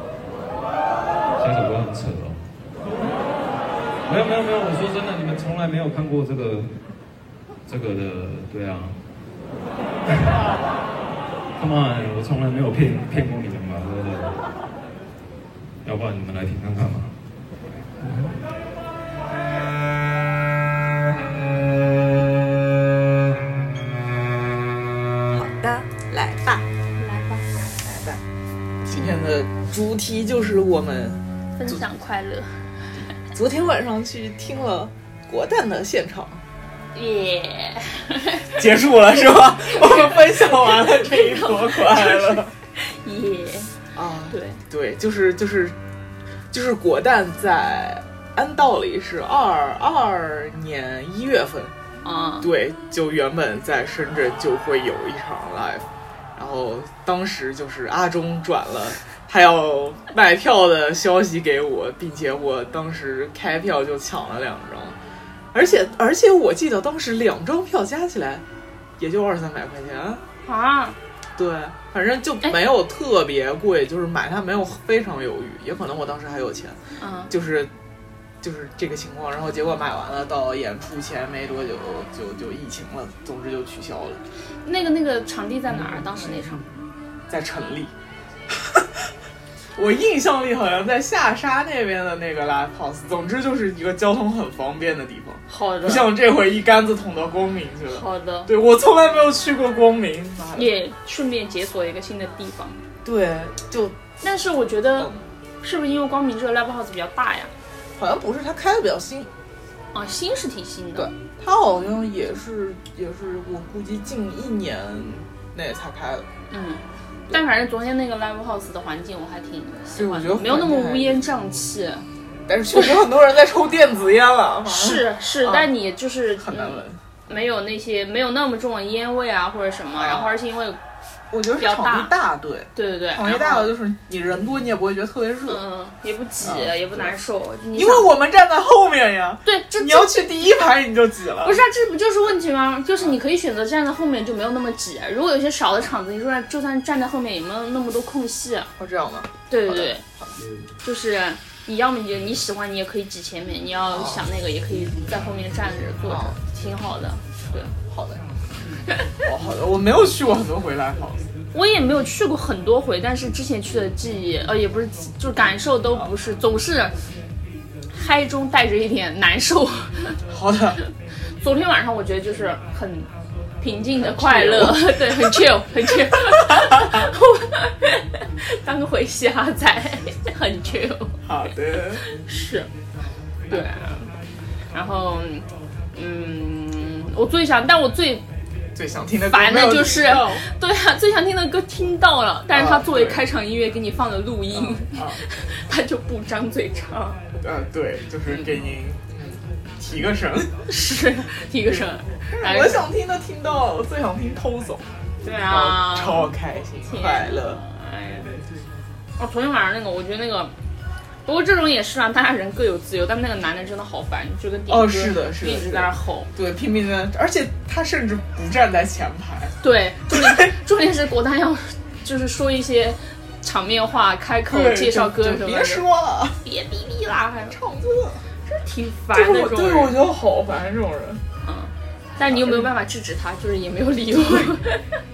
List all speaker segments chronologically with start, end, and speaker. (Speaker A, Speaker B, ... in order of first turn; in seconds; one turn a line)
Speaker A: 1.4-2.4
Speaker A: 4.0-6.8
Speaker A: 7.7-9.0
Speaker A: 10.1-10.4
Speaker A: 11.6-14.5
Speaker A: 15.8-17.2
Speaker A: 18.0-18.3
Speaker B: 25.4-26.6
Speaker C: 27.0-27.6
Speaker B: 27.8-28.2
Speaker B: 28.9-31.8
Speaker C: 31.6-32.7
Speaker B: 33.2-36.4
Speaker C: 36.9-38.6
Speaker B: 38.5-42.5
Speaker C: 39.6-43.7
Speaker B: 43.9-45.8
Speaker C: 44.3-44.6
Speaker B: 46.5-51.7
Speaker C: 52.0-52.5
Speaker B: 52.4-65.0
Speaker B: 65.5-68.4
Speaker B: 69.0-70.2
Speaker C: 70.4-71.0
Speaker B: 71.4-76.8
Speaker C: 77.0-77.3
Speaker B: 77.3-77.7
Speaker B: 78.4-84.2
Speaker C: 84.6-86.7
Speaker B: 87.3-87.9
Speaker B: 89.8-100.7
Speaker C: 95.5-96.1
Speaker C: 97.9-98.5
Speaker C: 100.5-102.8
Speaker B: 103.0-104.0
Speaker C: 104.2-107.5
Speaker B: 105.0-105.2
Speaker B: 108.0-109.3
Speaker C: 109.9-111.1
Speaker B: 111.0-116.3
Speaker C: 116.5-122.1
Speaker B: 120.0-121.2
Speaker B: 122.5-125.7
Speaker C: 124.7-130.8
Speaker B: 126.4-127.0
Speaker B: 129.9-130.4
Speaker B: 131.3-135.6
Speaker C: 131.6-132.1
Speaker C: 132.7-133.7
Speaker C: 135.5-138.1
Speaker B: 136.4-137.1
Speaker B: 137.7-141.6
Speaker C: 139.4-140.2
Speaker C: 141.4-148.7
Speaker B: 148.8-150.4
Speaker C: 149.5-150.0
Speaker C: 150.8-157.7
Speaker B: 153.9-154.3
Speaker B: 156.1-156.4
Speaker B: 157.8-158.2
Speaker B: 159.2-161.3
Speaker C: 161.5-167.0
Speaker C: 167.9-170.2
Speaker B: 170.3-170.8
Speaker C: 170.8-181.2
Speaker B: 174.0-175.4
Speaker B: 181.2-182.0
Speaker C: 182.1-182.7
Speaker C: 183.5-184.2
Speaker C: 184.7-188.2
Speaker B: 188.8-190.5
Speaker C: 189.3-197.2
Speaker B: 192.5-193.2
Speaker B: 194.5-195.2
Speaker B: 197.4-200.6
Speaker C: 200.7-202.8
Speaker B: 201.7-204.9
Speaker C: 205.2-206.3
Speaker B: 205.5-207.6
Speaker C: 206.9-208.4
Speaker C: 209.2-210.6
Speaker C: 211.2-216.3
Speaker B: 214.7-219.6
Speaker C: 219.6-225.8
Speaker B: 220.1-220.4
Speaker B: 224.5-226.4
Speaker C: 226.4-227.6
Speaker B: 227.5-228.3
Speaker C: 228.4-229.9
Speaker B: 229.1-231.2
Speaker C: 231.4-234.9
Speaker B: 232.2-232.7
Speaker B: 234.2-234.5